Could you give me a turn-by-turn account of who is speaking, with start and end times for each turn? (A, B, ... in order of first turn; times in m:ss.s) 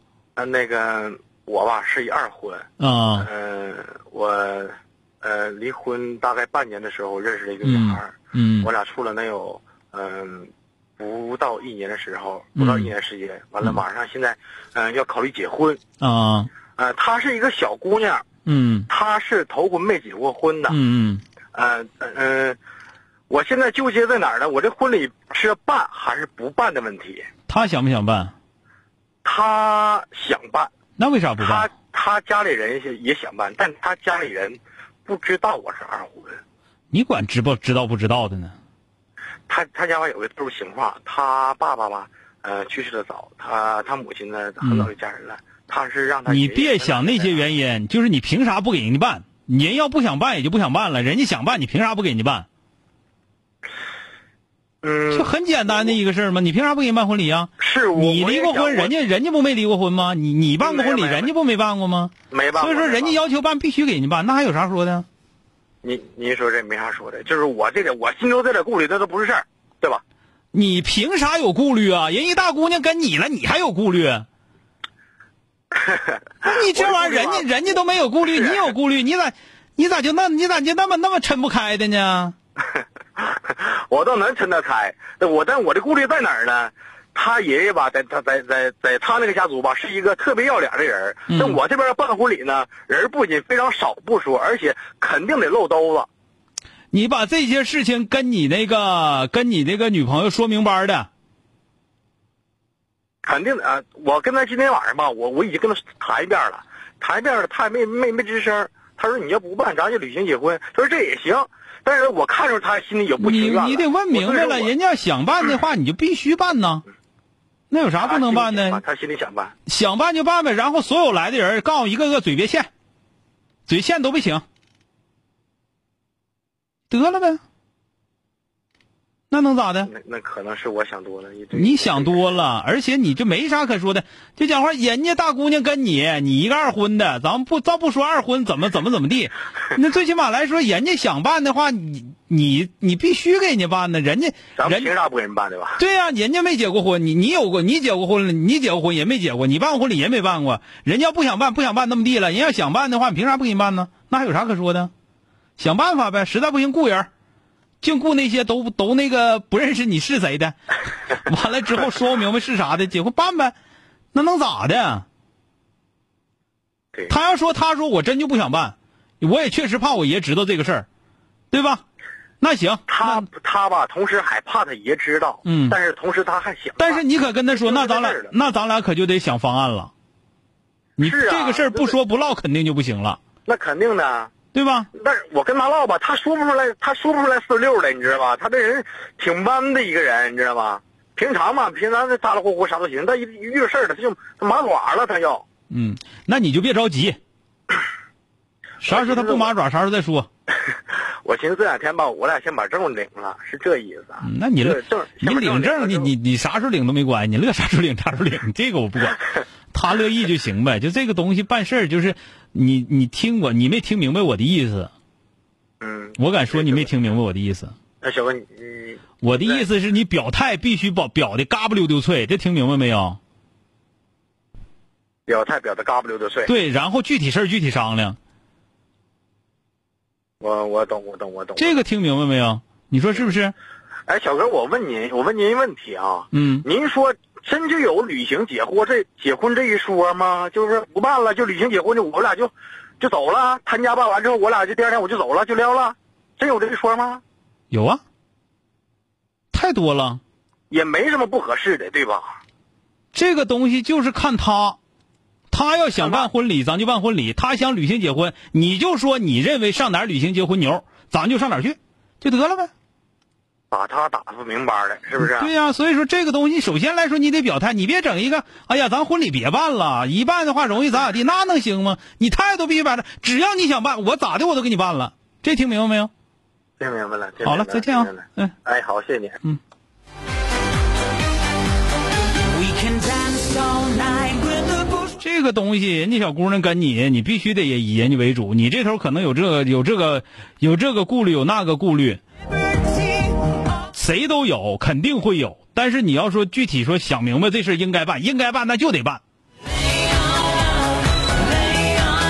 0:00.4-0:02.7 A
0:02.8-0:03.3 B
0:03.2-0:15.8 A
0:07.6-0:08.7 B
0:12.6-0:12.9 B
0:16.0-0:16.5 B
0:16.7-0:18.2 A
0:18.5-0:18.9 B
0:18.9-0:20.8 A
0:20.7-0:21.2 B
0:21.5-0:22.6 A
0:23.3-0:27.2 A
0:27.5-0:28.3 B
0:29.2-0:30.7 A
0:31.0-0:31.7 B
0:31.4-0:36.4 A
0:36.9-0:38.5 B
0:39.5-0:47.5 A
0:44.6-0:44.9 B
0:46.3-0:52.5 B
0:54.8-0:55.3 A
0:55.1-1:05.0 B
0:57.6-0:59.0 A
1:00.6-1:01.3 A
1:02.3-1:03.2 A
1:05.8-1:10.0 A
1:10.5-1:14.2 B
1:15.8-1:17.5 A
1:16.4-1:22.4 B
1:18.2-1:18.7 A
1:23.2-1:36.1 A
1:31.3-1:31.6 B
1:36.9-1:41.1 B
1:43.2-1:54.7 A
1:53.2-1:56.8 B
1:57.7-1:58.8 B
1:58.0-1:59.5 A
1:59.7-2:02.7 B
2:03.7-2:04.4 B
2:06.9-2:07.4 B
2:09.3-2:09.9 B
2:09.9-2:12.3 A
2:11.5-2:24.9 B
2:24.6-2:25.8 A
2:25.8-2:34.9 B
2:35.6-2:37.1 B
2:37.8-2:40.6 B
2:41.1-2:43.5 B
2:44.1-2:45.0 B
2:47.1-2:50.9 B
2:51.5-2:51.8 B
2:52.4-2:53.2 B
2:52.9-2:57.0 A
2:55.4-2:55.8 B
2:56.8-2:59.9 B
2:57.6-2:58.3 A
3:01.0-3:02.0 A
3:01.0-3:03.2 B
3:03.5-3:04.3 A
3:04.5-3:04.9 B
3:04.9-3:15.4 A
3:15.7-3:17.2 B
3:18.8-3:20.3 B
3:18.8-3:19.5 A
3:20.7-3:26.1 A
3:24.2-3:34.9 B
3:35.8-3:36.9 A
3:36.2-3:37.7 B
3:38.0-3:39.6 A
3:39.2-3:43.2 B
3:45.3-3:46.5 A
3:46.5-3:48.2 B
3:50.4-3:51.8 A
3:51.6-3:53.5 B
3:54.1-4:07.2 A
3:56.3-3:56.6 B
4:07.7-4:08.0 B
4:09.5-4:10.2 B
4:10.7-4:12.4 A
4:13.1-4:14.8 B
4:15.5-4:22.7 B
4:16.0-4:16.3 A
4:23.7-4:25.5 A
4:25.2-4:36.1 B
4:36.8-4:39.4 A
4:37.4-4:38.5 B
4:42.5-4:45.0 C
4:45.0-4:52.2 B
4:53.9-4:59.2 B